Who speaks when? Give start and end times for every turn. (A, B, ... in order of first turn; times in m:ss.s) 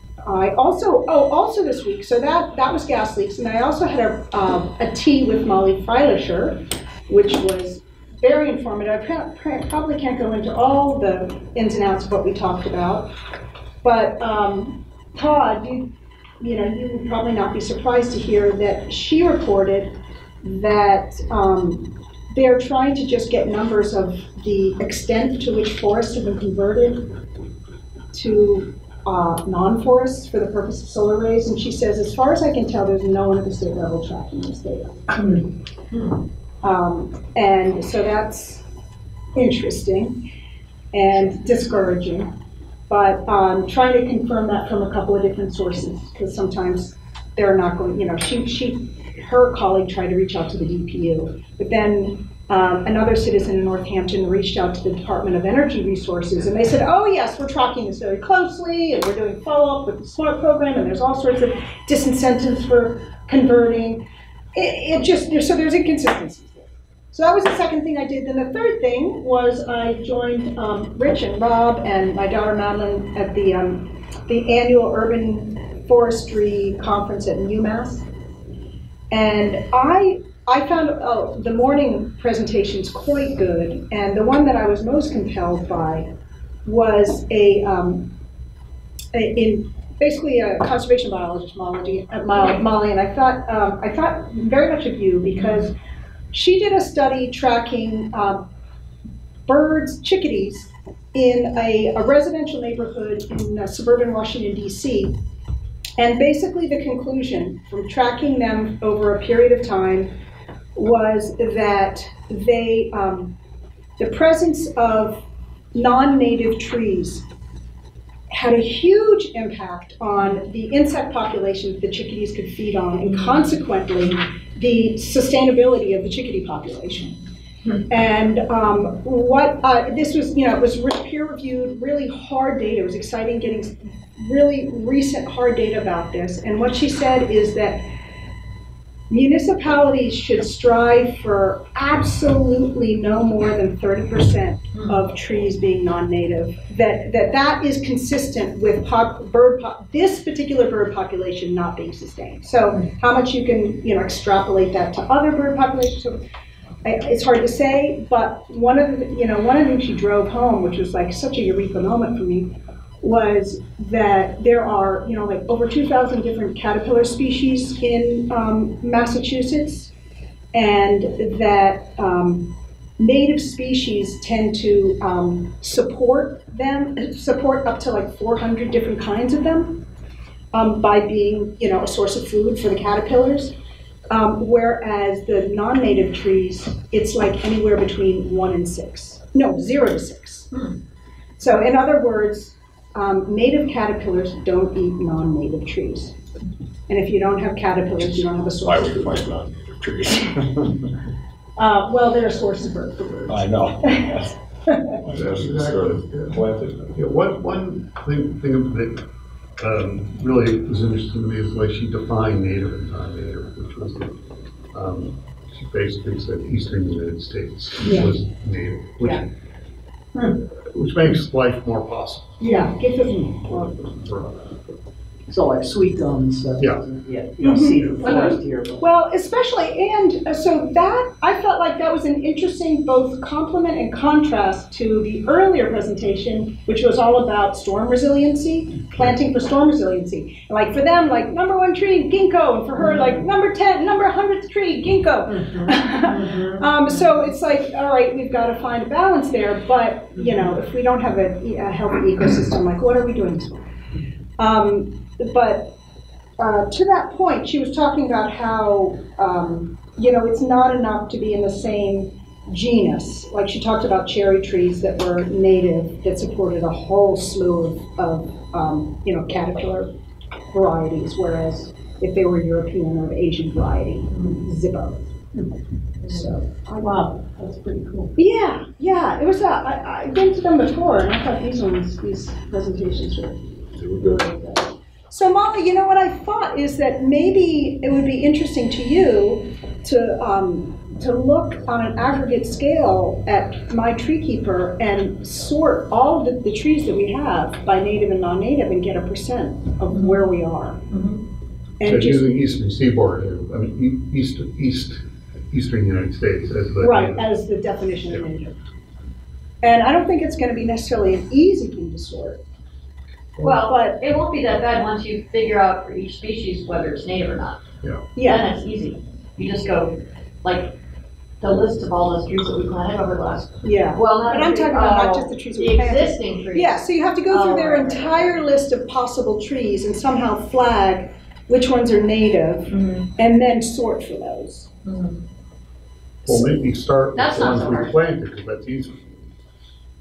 0:00.2-0:13.1 A
0:13.8-0:15.9 A
0:16.4-0:27.1 A
0:28.1-0:35.4 A
0:36.6-0:38.6 A
0:39.3-0:40.2 A
0:40.9-0:42.3 A
0:42.9-1:18.1 A
1:19.1-1:26.1 A
1:26.6-1:28.1 A
1:29.1-1:35.7 A
1:36.3-1:38.4 A
1:39.5-1:45.2 A
1:46.0-1:50.1 A
1:50.7-1:53.3 A
1:54.0-1:55.2 A
1:55.7-1:57.2 A
1:58.3-2:07.2 A
2:07.9-2:17.9 A
2:19.1-2:36.2 A
2:36.8-2:49.9 A
2:50.5-2:59.8 A
3:00.5-3:03.5 A
3:04.1-3:10.5 A
3:11.4-3:16.2 A
3:16.9-3:19.3 A
3:18.0-3:20.7 B
3:21.6-3:24.1 A
3:23.3-3:24.4 B
3:24.7-3:24.9 A
3:25.0-3:27.0 B
3:25.1-3:26.4 C
3:26.9-3:29.0 C
3:29.6-3:34.2 C
3:34.7-3:39.2 C
3:37.8-3:38.1 A
3:40.6-3:42.5 C
3:42.4-3:43.7 A
3:43.3-3:44.8 C
3:45.3-3:48.8 D
3:46.6-3:46.8 C
3:47.4-4:13.6 A
3:47.6-3:48.4 C
4:02.8-4:03.2 D
4:05.3-4:06.7 D
4:14.4-4:15.7 A
4:16.4-4:29.9 A
4:30.5-4:35.0 A
4:36.0-4:37.0 A
4:36.1-4:38.1 E
4:38.2-4:43.4 A
4:44.0-4:44.6 A
4:45.1-5:00.8 A
4:59.9-5:00.3 E
5:00.9-5:01.2 E
5:01.8-5:02.3 A
5:01.8-5:07.4 C
5:06.8-5:08.6 A
5:09.6-5:12.4 A
5:13.4-5:17.6 E
5:13.4-5:14.0 A
5:17.8-5:18.2 C
5:18.2-5:18.4 A
5:18.2-5:20.7 E
5:21.4-5:28.3 E
5:23.6-5:34.7 A
5:32.7-5:33.1 E
5:34.8-5:35.2 E
5:36.2-5:39.1 C
5:37.1-5:38.0 E